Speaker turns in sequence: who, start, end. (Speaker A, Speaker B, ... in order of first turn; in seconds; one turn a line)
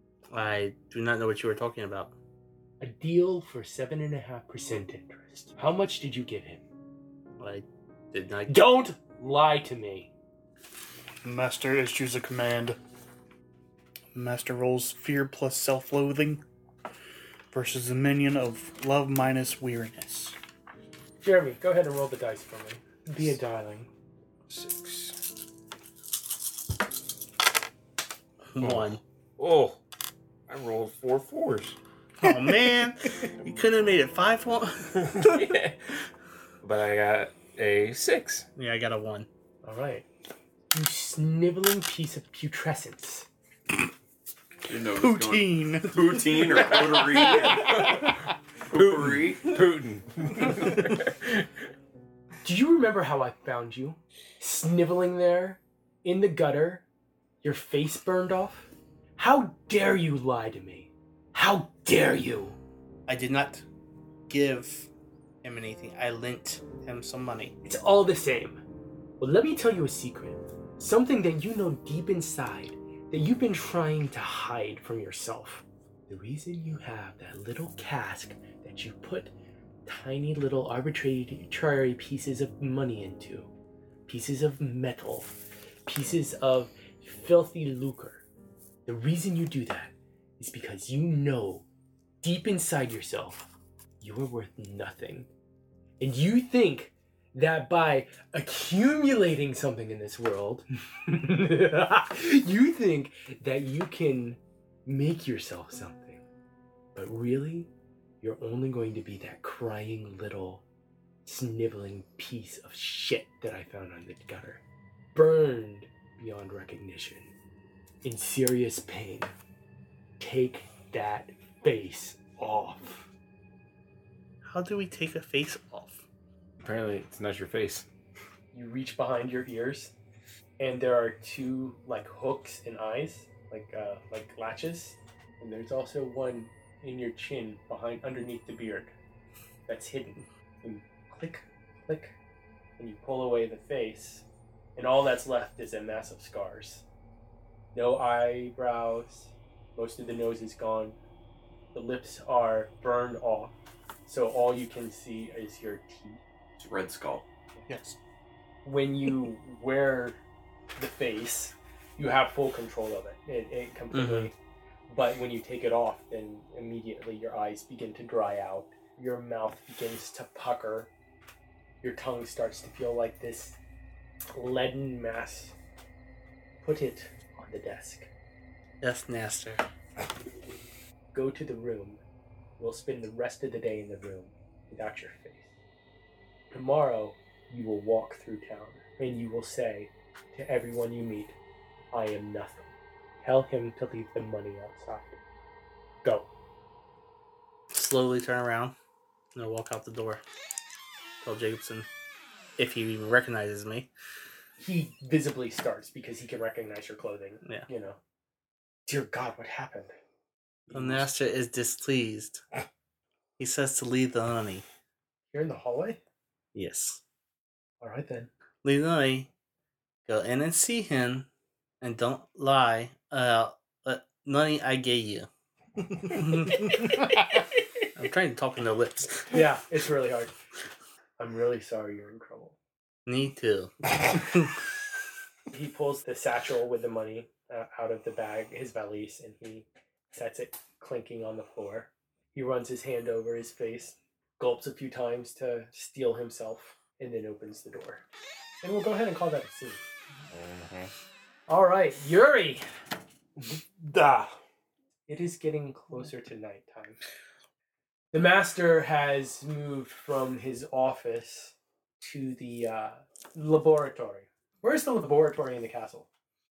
Speaker A: 0.3-2.1
Speaker B: 2.8-6.7
Speaker A: 7.4-8.6
Speaker B: 8.5-10.1
Speaker C: 11.2-12.8
Speaker C: 14.1-16.4
Speaker C: 17.5-20.4
Speaker B: 21.2-23.9
Speaker D: 24.5-25.2
Speaker A: 28.6-29.0
Speaker D: 28.6-29.8
Speaker D: 30.5-31.8
Speaker A: 32.2-35.1
Speaker C: 32.2-32.9
Speaker D: 35.0-35.8
Speaker D: 36.6-38.5
Speaker A: 38.6-39.3
Speaker B: 39.6-40.0
Speaker B: 40.7-43.3
Speaker E: 44.7-48.1
Speaker C: 45.0-47.7
Speaker E: 48.6-49.6
Speaker D: 48.7-51.2
Speaker B: 52.4-56.9
Speaker B: 57.4-62.6
Speaker A: 63.1-63.6
Speaker A: 64.3-64.9
Speaker A: 65.4-67.5
Speaker B: 67.6-68.6
Speaker B: 69.2-79.3
Speaker B: 79.9-83.5
Speaker B: 84.1-85.3
Speaker B: 85.9-88.2
Speaker B: 88.9-91.7
Speaker B: 92.2-95.3
Speaker B: 96.0-106.2
Speaker B: 107.0-107.7
Speaker B: 108.2-110.6
Speaker B: 111.3-114.6
Speaker B: 115.1-117.3
Speaker B: 118.0-119.3
Speaker B: 120.2-123.1
Speaker A: 124.5-126.0
Speaker D: 126.6-127.9
Speaker B: 128.5-129.9
Speaker B: 130.6-138.9
Speaker B: 139.7-142.2
Speaker B: 142.8-144.2
Speaker B: 144.8-146.8
Speaker B: 147.7-151.0
Speaker B: 151.7-153.5
Speaker B: 154.1-156.2
Speaker E: 156.6-157.2
Speaker C: 157.7-158.0
Speaker B: 158.7-160.2
Speaker B: 160.8-164.3
Speaker A: 163.9-164.3
Speaker B: 164.9-170.9
Speaker B: 171.8-173.6
Speaker B: 174.3-175.6
Speaker B: 176.6-178.1
Speaker A: 178.8-179.6
Speaker B: 181.1-182.0
Speaker B: 182.6-185.5
Speaker B: 186.5-191.4
Speaker B: 191.9-192.7
Speaker B: 193.2-195.2
Speaker B: 196.0-196.3
Speaker A: 197.7-198.8
Speaker A: 199.3-200.2
Speaker A: 201.2-201.9
Speaker A: 202.6-203.9
Speaker B: 204.6-208.0
Speaker B: 208.9-209.9
Speaker B: 210.7-211.1
Speaker A: 210.7-212.4
Speaker A: 213.4-214.7
Speaker B: 215.3-216.0
Speaker A: 216.5-217.0
Speaker B: 217.8-218.3
Speaker A: 218.6-219.3
Speaker A: 220.1-221.3
Speaker A: 221.8-225.3
Speaker A: 225.8-229.3
Speaker B: 229.3-230.3
Speaker B: 231.2-232.6
Speaker A: 233.1-234.5
Speaker B: 235.5-248.0
Speaker B: 248.6-249.8
Speaker D: 250.3-250.9
Speaker B: 251.5-252.7
Speaker B: 255.1-257.0
Speaker B: 258.1-266.1